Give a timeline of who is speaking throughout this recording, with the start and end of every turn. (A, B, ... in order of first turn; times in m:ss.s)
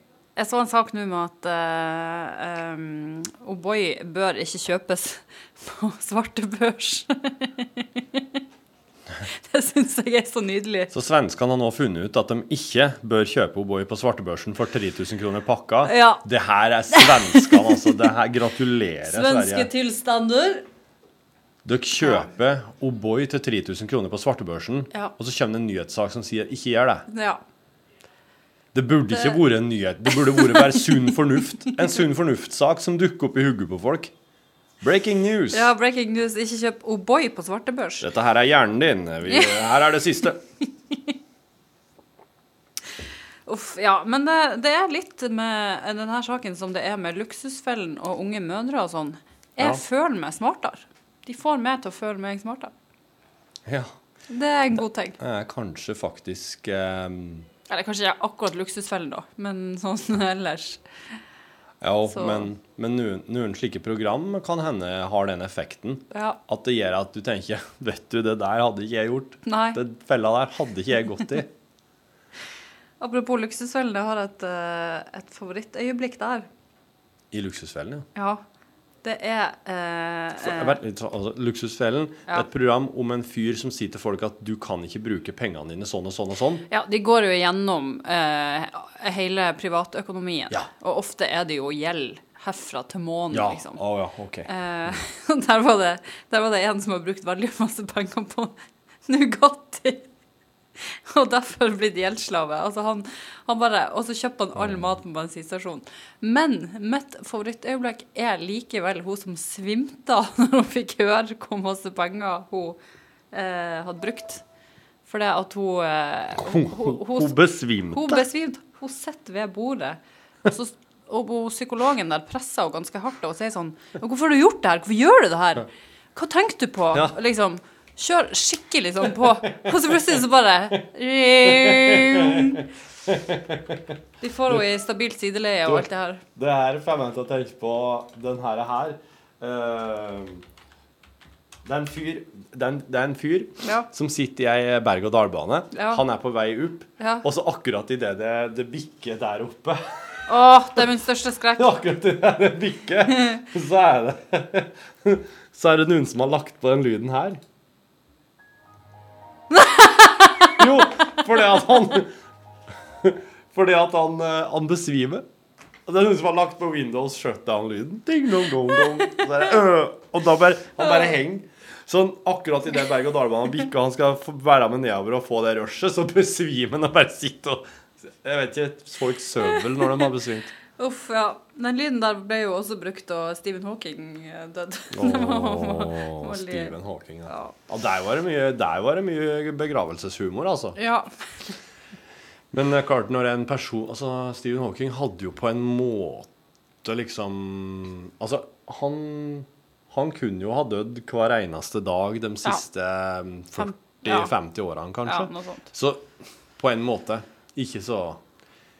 0:00.4-0:08.4 A
0:09.2-0:10.9 A
0:10.9-0:19.7 B
0:15.8-0:16.2 A
0:16.9-0:18.0 A
0:19.0-0:20.6 A
0:21.6-0:27.1 B
0:22.0-0:22.3 A
0:27.1-0:27.4 A
0:28.7-0:34.1 B
0:29.1-0:29.4 A
0:30.2-0:31.1 A
0:34.8-0:35.7 B
0:35.5-0:38.1 A
0:38.0-0:40.4 B
0:39.3-0:39.8 A
0:43.4-0:52.7 A
0:53.6-0:53.9 B
0:54.3-0:55.2 A
0:55.2-0:57.5 B
0:57.7-1:00.8 A
1:01.8-1:11.5 B
1:02.1-1:02.5 A
1:06.1-1:06.4 A
1:09.4-1:09.8 A
1:13.0-1:16.5 A
1:17.3-1:18.0 B
1:18.1-1:18.4 A
1:19.0-1:20.8 A
1:20.4-1:26.6 B
1:26.7-1:33.8 A
1:33.3-1:35.0 B
1:34.5-1:38.5 A
1:39.1-1:40.1 A
1:40.8-1:52.8 A
1:44.5-1:44.9 B
1:53.3-1:54.4 A
1:55.1-1:57.4 A
1:56.4-1:58.2 B
1:57.9-2:12.6 A
2:11.4-2:14.0 B
2:14.2-2:16.2 A
2:15.6-2:20.4 B
2:21.6-2:30.2 B
2:23.6-2:23.9 A
2:25.7-2:26.0 A
2:27.0-2:27.2 A
2:30.3-2:31.7 A
2:31.6-2:37.4 B
2:39.5-2:40.5 A
2:40.6-2:42.1 B
2:43.0-2:45.2 B
2:45.8-3:00.5 B
2:59.6-3:00.1 A
3:00.8-3:06.7 A
3:04.9-3:10.8 B
3:07.3-3:07.5 A
3:10.8-3:11.1 A
3:12.5-3:16.3 B
3:16.8-3:26.1 B
3:23.6-3:24.3 A
3:25.0-3:25.6 A
3:26.6-3:28.2 B